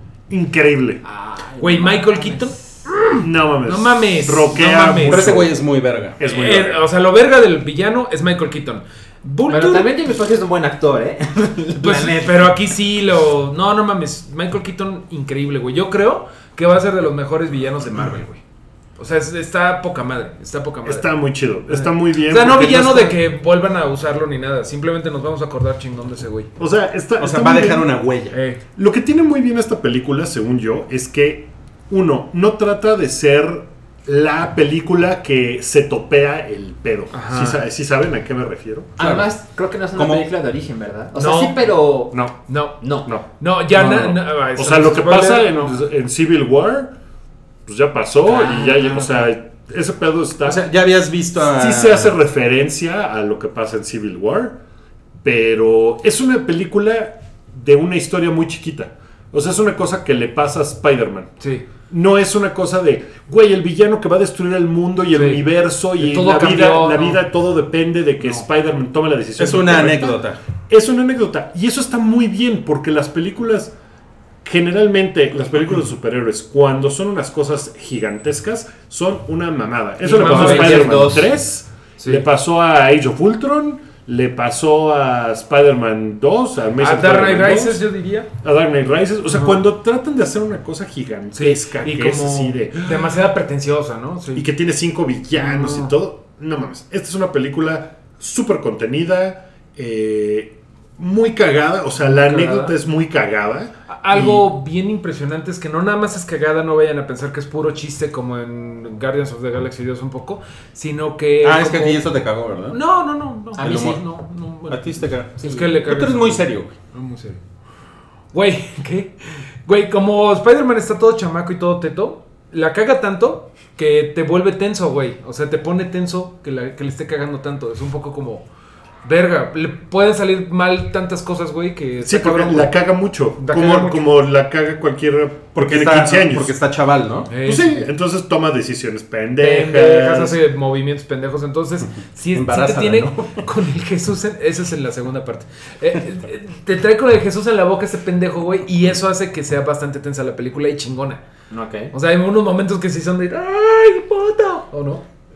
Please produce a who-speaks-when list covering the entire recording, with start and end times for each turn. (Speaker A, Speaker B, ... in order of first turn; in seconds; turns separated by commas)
Speaker A: 0.3-1.0, Speaker B: 1.0-2.6, Speaker C: 1.6-5.5, Speaker A: 3.2-5.5, Speaker D: 5.0-6.2, Speaker A: 6.2-6.8, Speaker C: 6.2-9.9, Speaker B: 9.5-12.5, Speaker C: 11.8-18.4, Speaker C: 19.0-21.1, Speaker A: 20.8-23.2, Speaker C: 21.7-26.5, Speaker A: 26.6-28.0, Speaker D: 27.2-28.4, Speaker C: 28.3-28.6, Speaker A: 28.7-38.9, Speaker C: 37.1-37.6, Speaker B: 39.0-42.2, Speaker D: 39.0-39.3, Speaker D: 39.9-40.3, Speaker C: 41.1-41.7, Speaker C: 42.5-45.8, Speaker B: 42.8-43.1, Speaker A: 43.0-46.9, Speaker A: 47.6-50.6, Speaker B: 48.2-49.3, Speaker D: 50.4-52.2, Speaker A: 51.4-54.6, Speaker A: 55.2-61.3, Speaker A: 61.9-73.7, Speaker C: 65.1-67.2, Speaker C: 68.2-68.4, Speaker D: 69.4-70.4, Speaker A: 74.4-87.8, Speaker C: 80.0-81.2, Speaker B: 80.1-81.3, Speaker C: 82.0-82.2, Speaker C: 86.8-88.3, Speaker A: 88.4-93.2, Speaker C: 89.3-89.6, Speaker C: 91.3-94.5, Speaker A: 94.3-104.4, Speaker C: 95.3-95.9, Speaker C: 102.0-102.7, Speaker C: 103.9-112.0, Speaker D: 111.4-112.8, Speaker C: 112.7-117.4, Speaker B: 113.6-114.0, Speaker D: 113.6-114.0, Speaker D: 114.7-116.7, Speaker B: 115.4-115.7, Speaker C: 118.3-128.4, Speaker C: 129.0-132.8, Speaker A: 132.0-136.5, Speaker C: 133.4-134.1, Speaker D: 135.5-137.3, Speaker C: 137.3-137.9, Speaker A: 137.4-140.3, Speaker C: 139.4-151.2, Speaker D: 142.3-143.4, Speaker B: 151.5-151.9, Speaker C: 151.9-155.0